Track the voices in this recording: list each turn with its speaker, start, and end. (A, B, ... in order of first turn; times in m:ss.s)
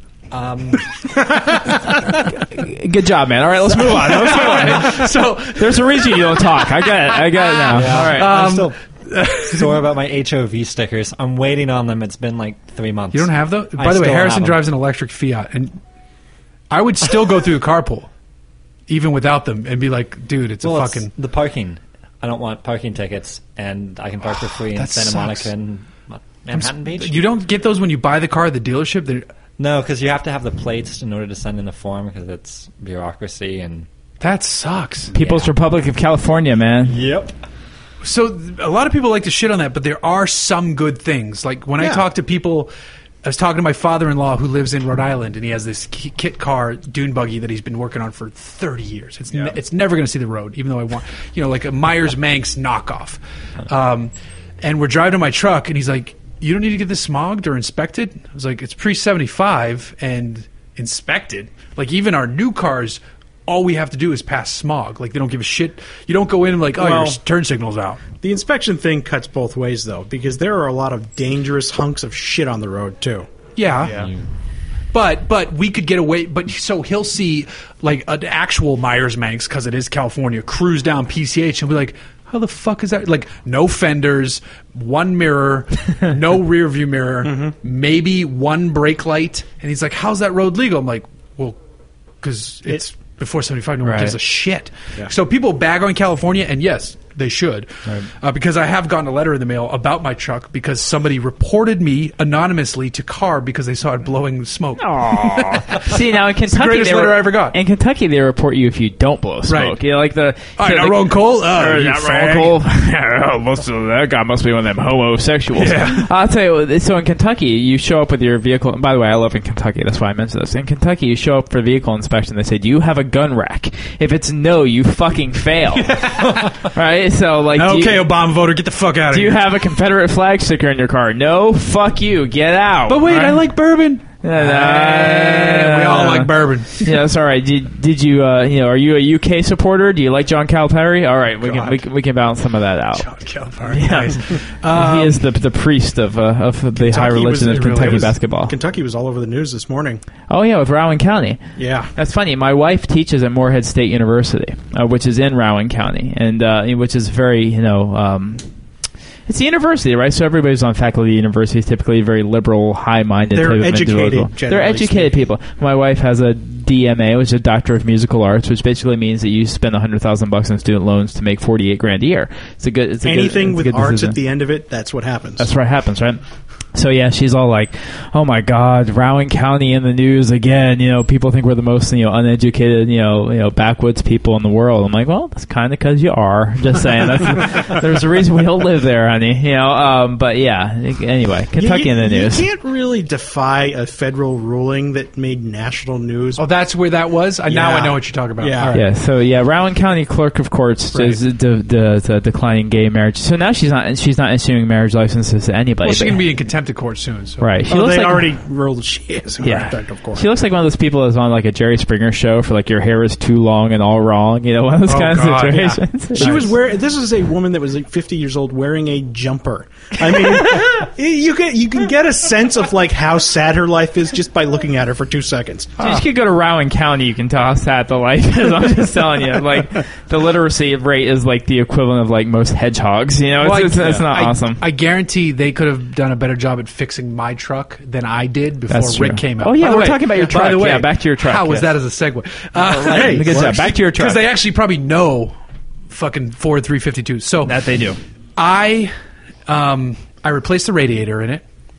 0:00.3-0:02.2 A
0:01.9-0:08.4 B
0:03.7-0:06.7 A
0:07.6-0:09.8 A
0:07.7-0:08.8 C
0:09.3-0:14.6 C
0:13.1-0:15.8 A
0:16.7-0:18.1 A
0:18.9-0:21.1 A
0:20.6-0:27.2 C
0:24.8-0:25.5 A
0:26.5-0:29.3 A
0:29.6-0:33.9 C
0:34.2-0:35.1 A
0:35.1-0:35.5 C
0:35.1-0:37.0 B
0:36.8-0:37.4 C
0:38.0-0:42.7 A
0:43.2-1:08.0 A
1:06.8-1:07.2 D
1:08.2-1:13.3 D
1:13.6-1:14.1 A
1:13.9-1:14.2 C
1:14.9-1:31.6 A
1:27.2-1:27.5 D
1:32.2-1:47.6 A
1:33.8-1:34.2 B
1:44.8-2:08.0 B
1:49.5-1:49.8 A
1:50.6-1:52.6 A
1:55.6-1:56.1 A
2:05.8-2:06.6 A
2:07.5-2:09.4 A
2:09.1-2:13.4 B
2:12.9-2:16.9 A
2:14.2-2:23.1 B
2:21.4-2:21.8 A
2:23.0-2:25.2 A
2:23.6-2:28.6 B
2:26.8-2:30.0 D
2:27.4-2:28.1 A
2:30.3-2:31.4 B
2:31.6-2:31.9 D
2:32.0-2:38.5 B
2:39.3-2:54.2 B
2:43.3-2:45.2 D
2:53.0-2:55.5 D
2:55.4-2:56.2 B
2:56.7-3:12.5 B
3:11.6-3:16.4 D
3:16.4-3:18.9 A
3:17.5-3:18.8 D
3:18.7-3:26.2 B
3:20.9-3:21.2 A
3:25.8-3:27.5 A
3:27.4-3:28.3 B
3:27.7-3:30.2 D
3:29.4-3:36.5 B
3:34.9-3:36.5 A
3:36.2-3:45.7 D
3:45.8-3:54.6 B
3:53.4-4:05.4 A
3:58.7-4:01.7 B
4:02.6-4:04.2 B
4:02.8-4:03.7 D
4:05.9-4:07.6 A
4:07.4-4:08.0 B
4:08.4-4:08.9 A
4:09.5-4:11.4 A